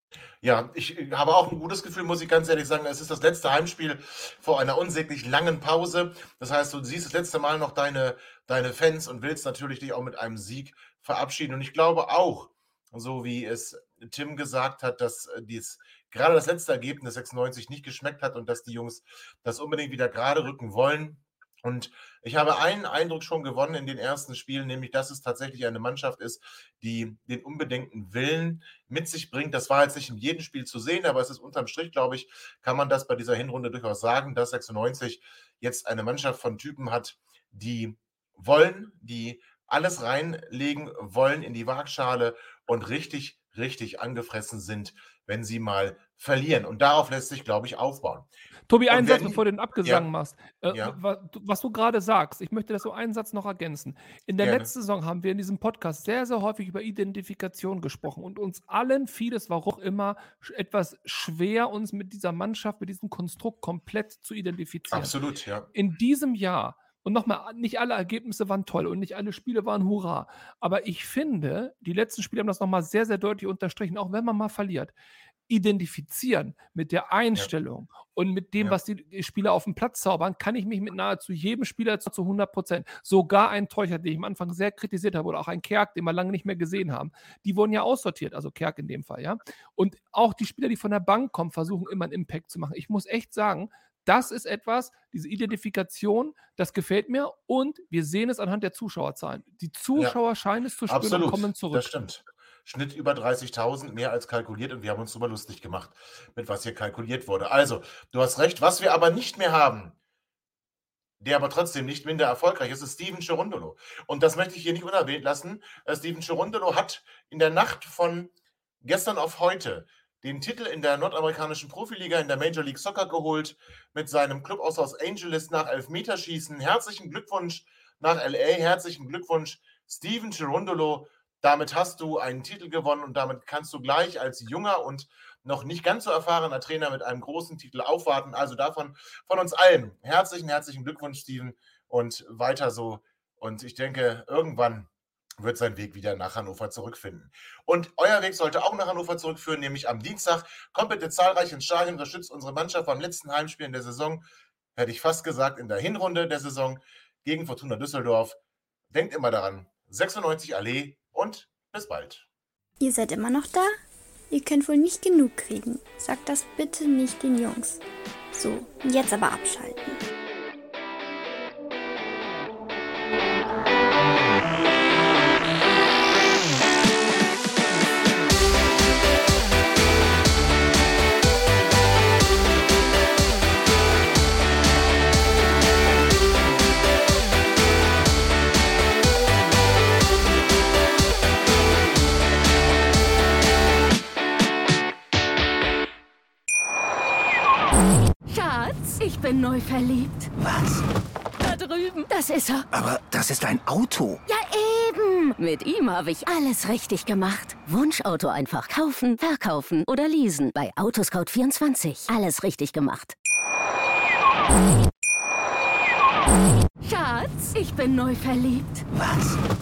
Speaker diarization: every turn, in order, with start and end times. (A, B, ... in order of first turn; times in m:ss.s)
0:00.4-0:48.3 A
0:48.7-1:05.1 B
0:48.9-0:50.1 A
0:50.7-0:51.0 A
0:54.4-0:54.7 A
1:04.9-1:05.7 A
1:05.7-1:14.9 B
1:15.5-1:41.9 B
1:40.9-1:50.0 A
1:51.2-1:58.3 A
1:58.8-2:24.9 A
2:25.4-2:34.2 A
2:34.8-2:38.4 A
2:38.9-2:42.2 A
2:42.8-2:43.8 C
2:44.3-2:47.8 C
2:48.3-2:50.0 C
3:18.3-3:20.3 D
3:20.4-3:20.8 E
3:21.4-3:22.7 D
3:22.7-3:24.2 E
3:24.3-3:33.2 D
3:36.8-3:38.9 D
3:38.9-3:39.4 E